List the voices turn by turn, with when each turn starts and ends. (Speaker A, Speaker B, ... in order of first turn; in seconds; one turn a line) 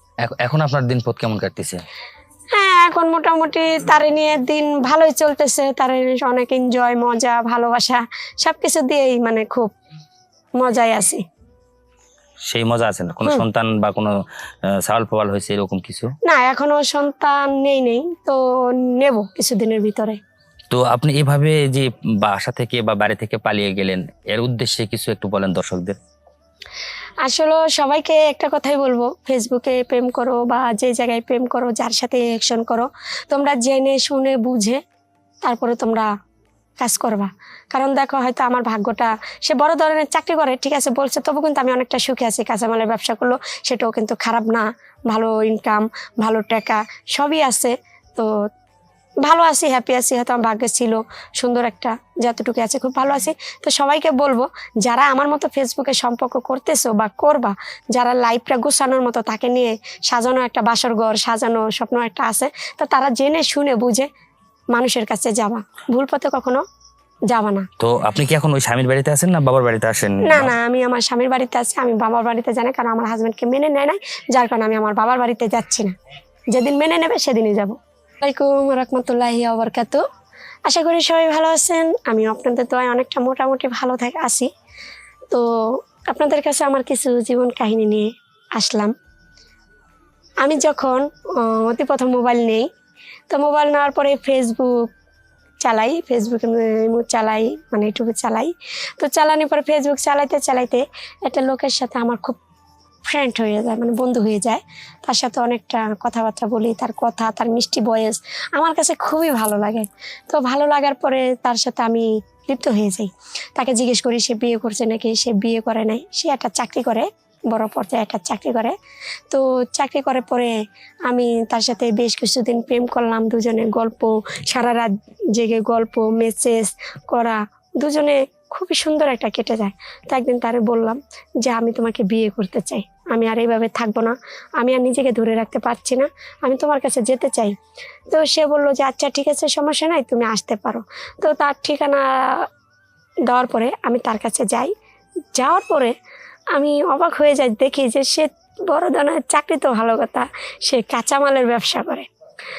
Speaker A: 0.2-1.8
Speaker B: 2.5-9.7
Speaker B: 10.6-11.2
Speaker A: 12.4-14.2
Speaker A: 14.7-16.1
Speaker B: 16.2-20.2
Speaker A: 20.7-25.9
Speaker B: 27.2-34.8
Speaker B: 35.4-36.1
Speaker B: 36.8-48.3
Speaker B: 49.2-64.1
Speaker B: 64.7-66.6
Speaker B: 67.3-67.7
Speaker A: 67.8-70.5
Speaker B: 70.2-75.9
Speaker B: 76.5-80.0
Speaker B: 80.7-84.5
Speaker B: 85.3-88.9
Speaker B: 90.4-92.7
Speaker B: 93.3-94.9
Speaker B: 95.6-102.4
Speaker B: 103.0-118.7
Speaker B: 119.3-120.5
Speaker B: 121.1-137.5
Speaker B: 138.1-142.5
Speaker B: 143.3-144.7
Speaker B: 145.3-145.9
Speaker B: 146.5-152.1